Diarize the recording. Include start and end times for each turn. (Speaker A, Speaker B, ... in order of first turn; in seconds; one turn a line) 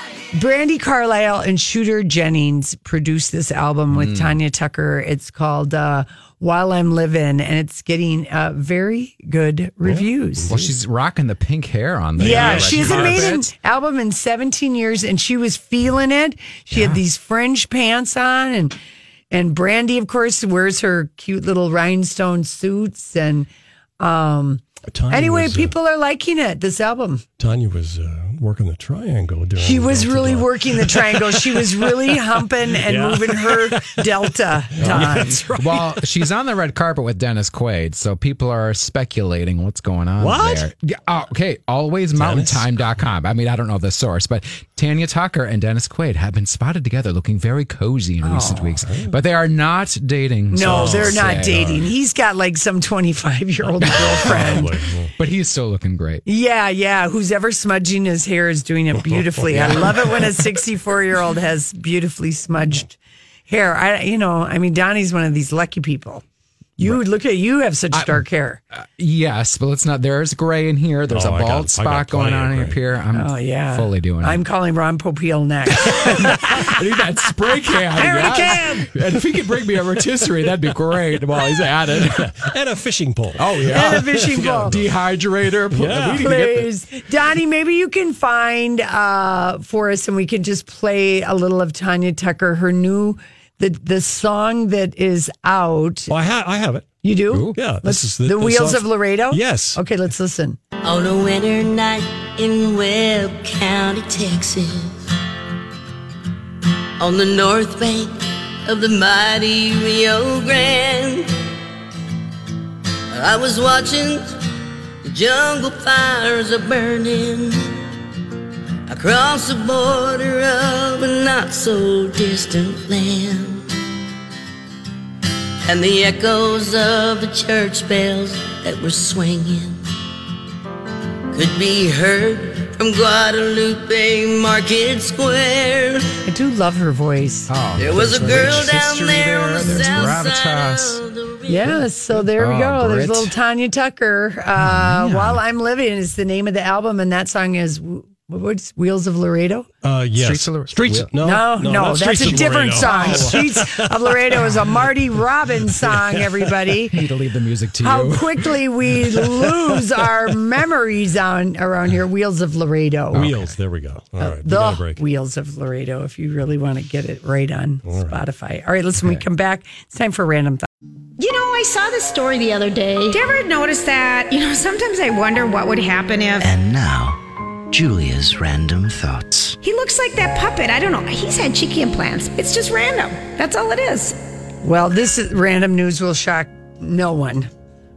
Speaker A: 0.3-10.5
Speaker B: 3.9-4.4
Speaker C: 9.8-10.7
Speaker B: 10.5-13.5
Speaker C: 12.2-13.3
Speaker A: 12.2-18.8
Speaker B: 16.7-17.0
Speaker A: 19.3-23.5
Speaker A: 24.0-27.2
Speaker C: 24.9-25.7
Speaker C: 27.4-36.0
Speaker A: 29.6-35.4
Speaker B: 34.8-51.9
Speaker C: 40.2-40.7
Speaker C: 42.1-42.7
Speaker A: 48.2-48.8
Speaker C: 48.8-49.1
Speaker A: 50.5-54.7
Speaker C: 50.6-51.5
Speaker B: 53.8-54.6
Speaker C: 54.0-55.1
Speaker B: 55.1-56.2
Speaker A: 56.2-66.2
Speaker C: 58.9-60.4
Speaker A: 66.8-68.6
Speaker B: 67.9-74.4
Speaker C: 71.1-72.8
Speaker A: 73.1-76.8
Speaker B: 75.8-82.5
Speaker A: 78.0-78.6
Speaker C: 78.0-78.9
Speaker C: 81.9-84.9
Speaker B: 83.4-86.7
Speaker A: 83.7-84.7
Speaker C: 85.7-86.2
Speaker A: 86.2-96.1
Speaker C: 96.1-97.0
Speaker A: 97.0-100.6
Speaker B: 97.3-97.6
Speaker C: 97.5-99.8
Speaker D: 100.8-105.0
Speaker D: 107.0-111.3
Speaker D: 113.1-114.4
Speaker D: 115.0-117.7
Speaker D: 118.9-123.7
Speaker D: 125.6-129.8
Speaker D: 131.3-136.1
Speaker A: 136.2-138.7
Speaker B: 137.5-141.0
Speaker D: 137.8-141.8
Speaker A: 141.5-149.7
Speaker B: 142.3-143.3
Speaker B: 144.6-145.4
Speaker C: 149.8-154.9
Speaker B: 150.1-151.1
Speaker A: 151.2-157.0
Speaker B: 152.2-153.3
Speaker C: 155.7-156.7
Speaker B: 156.9-158.5
Speaker A: 157.8-163.3
Speaker B: 163.1-163.6
Speaker C: 163.1-165.0
Speaker A: 164.2-170.7
Speaker C: 167.8-168.2
Speaker E: 171.2-176.5
Speaker F: 176.4-177.2
Speaker F: 177.7-179.6
Speaker E: 179.6-184.2
Speaker A: 184.6-187.5